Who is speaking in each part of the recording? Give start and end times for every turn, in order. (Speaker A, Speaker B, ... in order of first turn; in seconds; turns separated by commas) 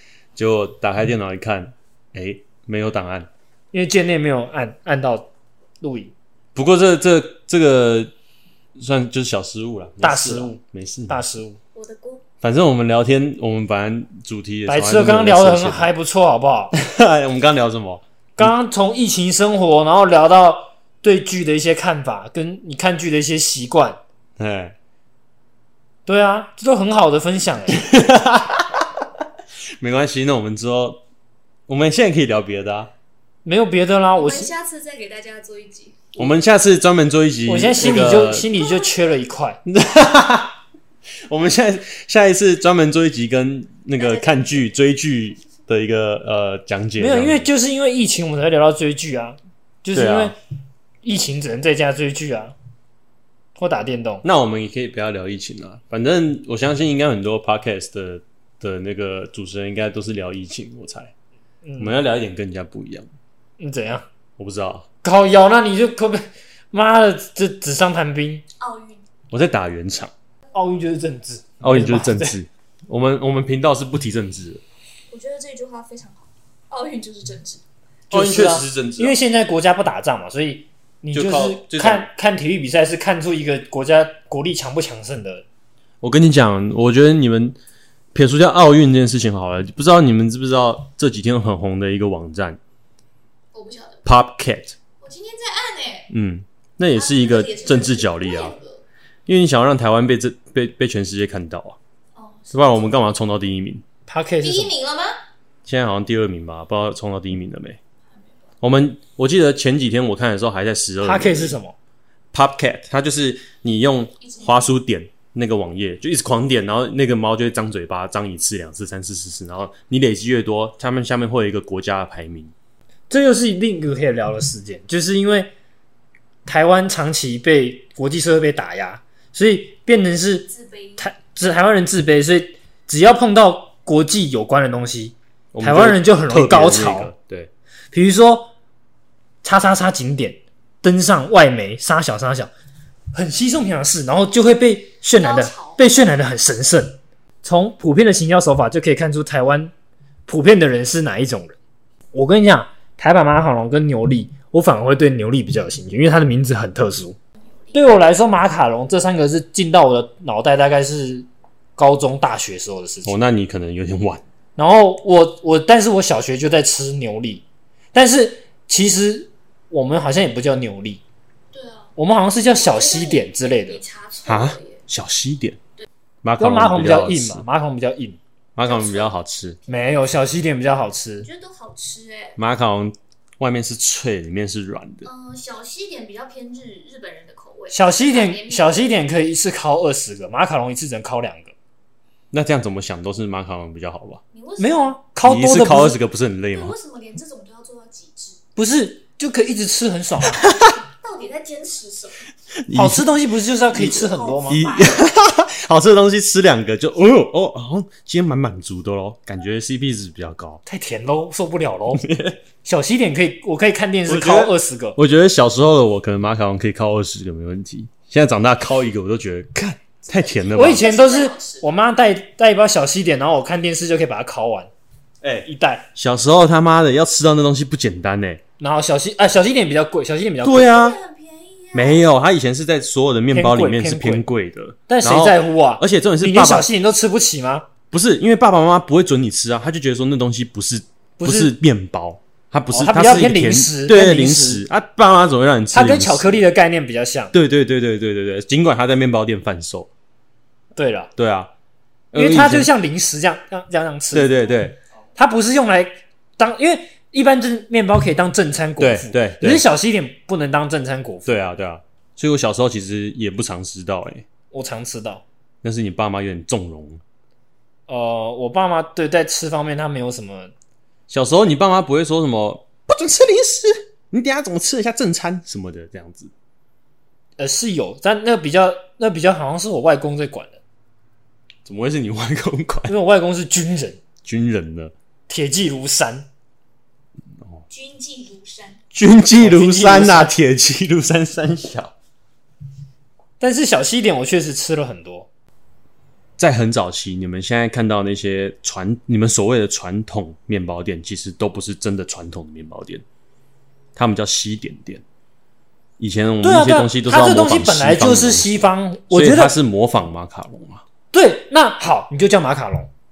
Speaker A: 0.4-3.3, Speaker B: 3.7-6.1, Speaker A: 6.5-8.1, Speaker A: 8.8-11.2, Speaker B: 10.0-11.6, Speaker C: 11.8-12.2, Speaker A: 12.4-15.9, Speaker B: 14.7-16.7, Speaker A: 16.7-18.5, Speaker B: 18.4-24.0, Speaker A: 24.4-24.8, Speaker B: 26.1-27.8, Speaker A: 27.7-28.9, Speaker A: 29.8-31.0, Speaker A: 31.7-32.9, Speaker B: 33.5-34.5, Speaker C: 34.1-36.1, Speaker A: 36.2-38.5, Speaker B: 37.5-39.6, Speaker A: 39.7-40.5, Speaker A: 41.2-47.5, Speaker C: 44.0-44.7, Speaker B: 47.0-50.4, Speaker A: 49.9-50.3, Speaker B: 51.0-52.5, Speaker B: 53.6-54.2, Speaker A: 54.2-61.1, Speaker B: 61.6-62.0, Speaker A: 61.8-63.1, Speaker B: 63.6-64.1, Speaker A: 64.4-64.8, Speaker B: 65.0-68.4, Speaker C: 68.6-69.0, Speaker A: 69.3-70.1, Speaker B: 70.5-72.4, Speaker A: 71.6-74.6, Speaker C: 75.1-77.6, Speaker B: 78.1-85.5, Speaker A: 78.1-79.2, Speaker A: 81.1-82.1, Speaker A: 86.0-87.6, Speaker A: 88.1-92.6, Speaker C: 93.5-94.0, Speaker A: 94.0-94.8, Speaker C: 95.0-96.1, Speaker A: 96.1-98.6, Speaker C: 96.9-98.8, Speaker A: 99.3-101.8, Speaker C: 102.2-102.9, Speaker A: 102.5-103.8, Speaker B: 104.1-104.7, Speaker C: 104.4-105.2, Speaker A: 105.7-107.8, Speaker A: 108.6-111.6, Speaker B: 111.0-111.8, Speaker A: 112.3-122.5, Speaker C: 114.2-114.7, Speaker B: 123.1-125.5, Speaker B: 126.5-137.1, Speaker C: 130.5-131.1, Speaker A: 135.5-137.5, Speaker B: 137.9-138.5, Speaker B: 139.4-142.5, Speaker B: 143.1-149.7, Speaker C: 145.2-145.8, Speaker B: 150.3-151.6, Speaker B: 152.1-157.2, Speaker B: 157.7-163.2, Speaker A: 163.1-164.2, Speaker B: 164.6-171.0, Speaker C: 171.5-171.9, Speaker B: 172.0-173.8, Speaker C: 172.5-174.8, Speaker A: 174.3-175.6, Speaker A: 176.2-177.4, Speaker B: 176.4-178.2, Speaker A: 178.6-179.6, Speaker C: 178.6-179.1, Speaker B: 179.7-181.3, Speaker C: 181.2-182.4, Speaker A: 182.4-185.1, Speaker C: 185.0-188.9, Speaker B: 187.7-191.5, Speaker A: 192.3-194.2, Speaker C: 194.3-195.0, Speaker B: 194.6-196.0, Speaker A: 195.2-196.8, Speaker C: 196.5-198.4, Speaker B: 198.6-200.5, Speaker A: 200.4-200.8, Speaker C: 200.4-202.2, Speaker A: 202.6-203.1, Speaker B: 202.7-204.7, Speaker A: 203.7-210.6, Speaker C: 203.8-204.9, Speaker B: 210.7-212.1, Speaker A: 211.9-212.4, Speaker B: 212.6-215.0, Speaker A: 214.1-220.9, Speaker C: 220.1-221.6, Speaker B: 220.5-224.7, Speaker A: 225.2-228.4, Speaker B: 225.4-225.9, Speaker B: 228.6-230.7, Speaker A: 230.4-231.0, Speaker C: 230.6-232.1, Speaker A: 231.7-236.7, Speaker B: 233.3-234.3, Speaker B: 234.9-237.7, Speaker A: 237.9-246.4, Speaker B: 241.2-241.6, Speaker B: 242.7-244.6, Speaker B: 245.7-247.3, Speaker A: 247.3-249.9, Speaker B: 250.8-251.1, Speaker A: 251.2-251.5, Speaker A: 252.1-252.7, Speaker B: 252.1-254.4, Speaker A: 254.1-254.8, Speaker B: 255.2-261.4, Speaker A: 258.8-259.6, Speaker A: 261.3-264.2, Speaker B: 264.5-265.2, Speaker A: 265.6-267.0, Speaker B: 267.9-270.5, Speaker A: 271.1-276.3, Speaker B: 277.4-280.6, Speaker A: 281.6-282.9, Speaker B: 282.9-284.0, Speaker A: 284.2-284.9, Speaker B: 285.3-286.3, Speaker C: 287.7-288.8, Speaker A: 288.9-291.9, Speaker B: 289.4-290.4, Speaker B: 293.4-295.3, Speaker A: 296.4-303.0, Speaker A: 303.9-305.0, Speaker A: 306.0-308.5, Speaker B: 306.4-309.6, Speaker A: 309.1-310.8, Speaker B: 311.1-312.9